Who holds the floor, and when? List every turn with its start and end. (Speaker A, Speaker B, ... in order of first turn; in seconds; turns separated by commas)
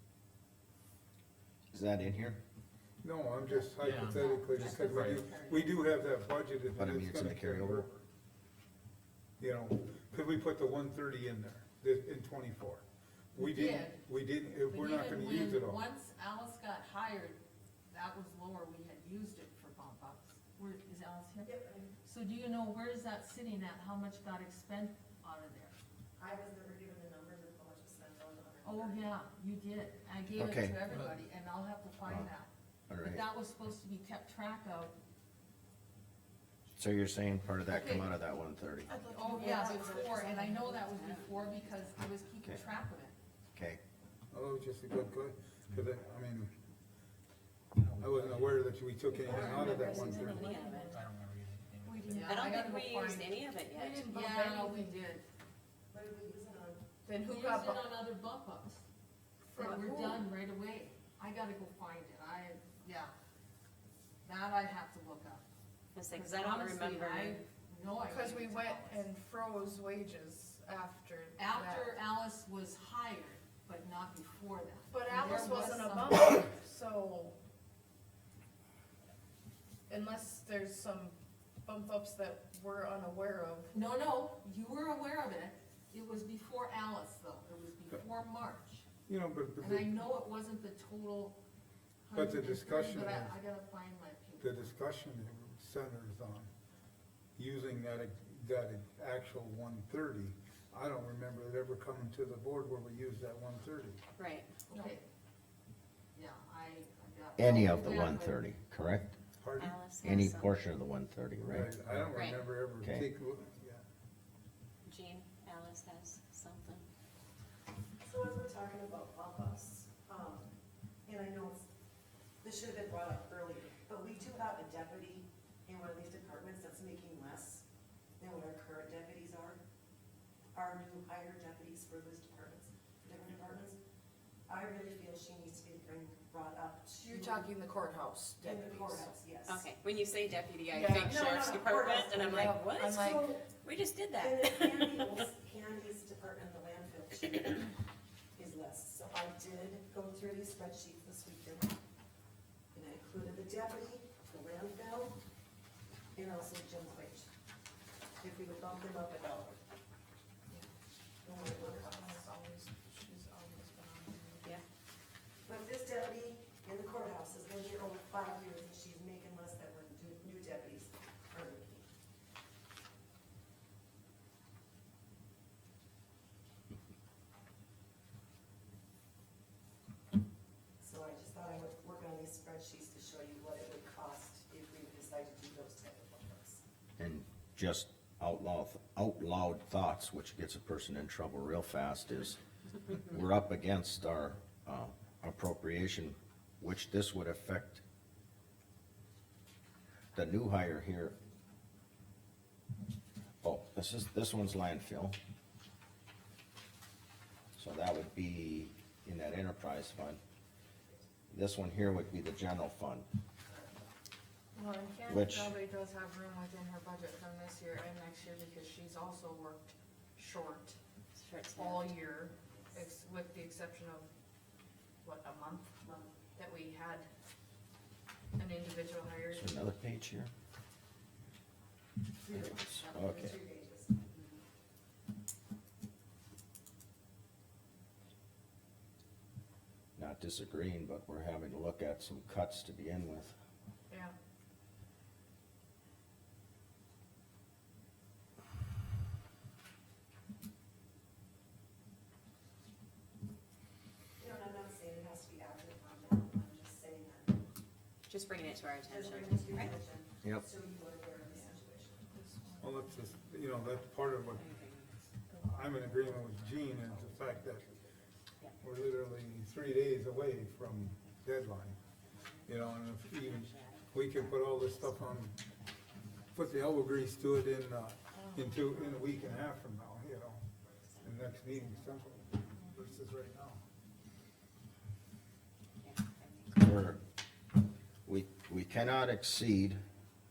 Speaker A: 1.7-2.4, Speaker B: 3.0-8.1, Speaker C: 3.5-5.8, Speaker D: 3.8-5.2, Speaker A: 6.8-7.8, Speaker B: 9.4-15.8, Speaker C: 13.4-14.0, Speaker C: 14.7-17.4, Speaker C: 17.9-21.5, Speaker E: 21.4-21.9, Speaker C: 22.0-25.8, Speaker E: 26.2-29.1, Speaker C: 28.6-32.5, Speaker A: 30.4-30.9, Speaker A: 32.0-32.3, Speaker A: 32.9-33.3, Speaker C: 33.0-35.0, Speaker A: 36.8-38.9, Speaker C: 37.7-38.0, Speaker F: 38.9-40.1, Speaker C: 39.1-43.1, Speaker G: 39.2-41.5, Speaker E: 39.3-40.7, Speaker A: 43.5-43.8, Speaker B: 44.3-46.5, Speaker D: 47.8-48.6, Speaker B: 48.0-50.5, Speaker G: 49.1-51.0, Speaker F: 50.3-51.0, Speaker D: 50.9-52.3, Speaker C: 51.8-53.4, Speaker F: 52.1-52.3, Speaker G: 52.1-54.1, Speaker F: 53.7-55.0, Speaker C: 54.0-55.2, Speaker E: 55.9-56.9, Speaker F: 57.0-57.9, Speaker C: 57.2-58.8, Speaker F: 59.5-60.2, Speaker C: 59.5-63.1, Speaker C: 64.2-65.4, Speaker G: 65.9-67.4, Speaker C: 66.1-69.1, Speaker F: 68.0-72.0, Speaker C: 71.4-76.2, Speaker F: 74.9-77.4, Speaker F: 79.9-83.7, Speaker C: 83.7-88.9, Speaker B: 89.1-90.0, Speaker C: 89.6-91.4, Speaker C: 92.0-94.7, Speaker B: 92.1-93.3, Speaker B: 94.4-96.5, Speaker B: 97.4-104.0, Speaker G: 104.2-104.5, Speaker C: 104.7-105.0, Speaker C: 106.1-108.4, Speaker A: 107.4-109.2, Speaker B: 109.4-109.8, Speaker G: 109.6-110.6, Speaker A: 110.0-112.0, Speaker B: 111.5-113.8, Speaker G: 112.1-112.5, Speaker A: 112.8-113.1, Speaker G: 114.9-116.8, Speaker E: 118.0-121.6, Speaker E: 122.4-127.6, Speaker E: 128.2-129.6, Speaker E: 130.5-133.8, Speaker E: 134.5-137.5, Speaker F: 137.0-139.1, Speaker E: 138.4-139.7, Speaker G: 139.4-145.3, Speaker F: 140.7-141.2, Speaker E: 141.1-143.5, Speaker F: 142.4-143.2, Speaker E: 144.2-147.7, Speaker E: 148.3-151.8, Speaker E: 152.7-155.2, Speaker E: 156.1-157.3, Speaker E: 158.2-159.6, Speaker E: 161.2-162.2, Speaker F: 161.3-164.6, Speaker E: 165.4-171.9, Speaker E: 180.8-186.6, Speaker A: 187.0-192.4, Speaker A: 192.9-197.8, Speaker A: 200.1-201.2, Speaker A: 203.4-205.2, Speaker A: 207.6-210.2, Speaker A: 211.3-213.1, Speaker F: 214.5-220.8, Speaker A: 215.1-215.5, Speaker G: 221.2-222.0, Speaker F: 221.5-224.1, Speaker F: 225.0-227.1, Speaker F: 228.4-229.5, Speaker A: 229.3-230.3, Speaker E: 232.2-234.4, Speaker A: 232.3-233.4, Speaker A: 240.0-243.4, Speaker F: 243.9-244.2, Speaker E: 254.2-257.4, Speaker G: 258.1-259.8, Speaker E: 258.8-262.1, Speaker F: 262.1-262.9, Speaker B: 262.6-264.5, Speaker G: 264.3-264.9, Speaker B: 265.4-267.7, Speaker B: 268.6-271.8, Speaker G: 272.2-272.4, Speaker B: 272.4-275.4, Speaker G: 273.1-274.9, Speaker B: 276.3-280.4, Speaker E: 280.6-282.4, Speaker B: 281.0-283.6, Speaker G: 285.8-286.6, Speaker A: 286.5-287.0, Speaker A: 288.1-289.8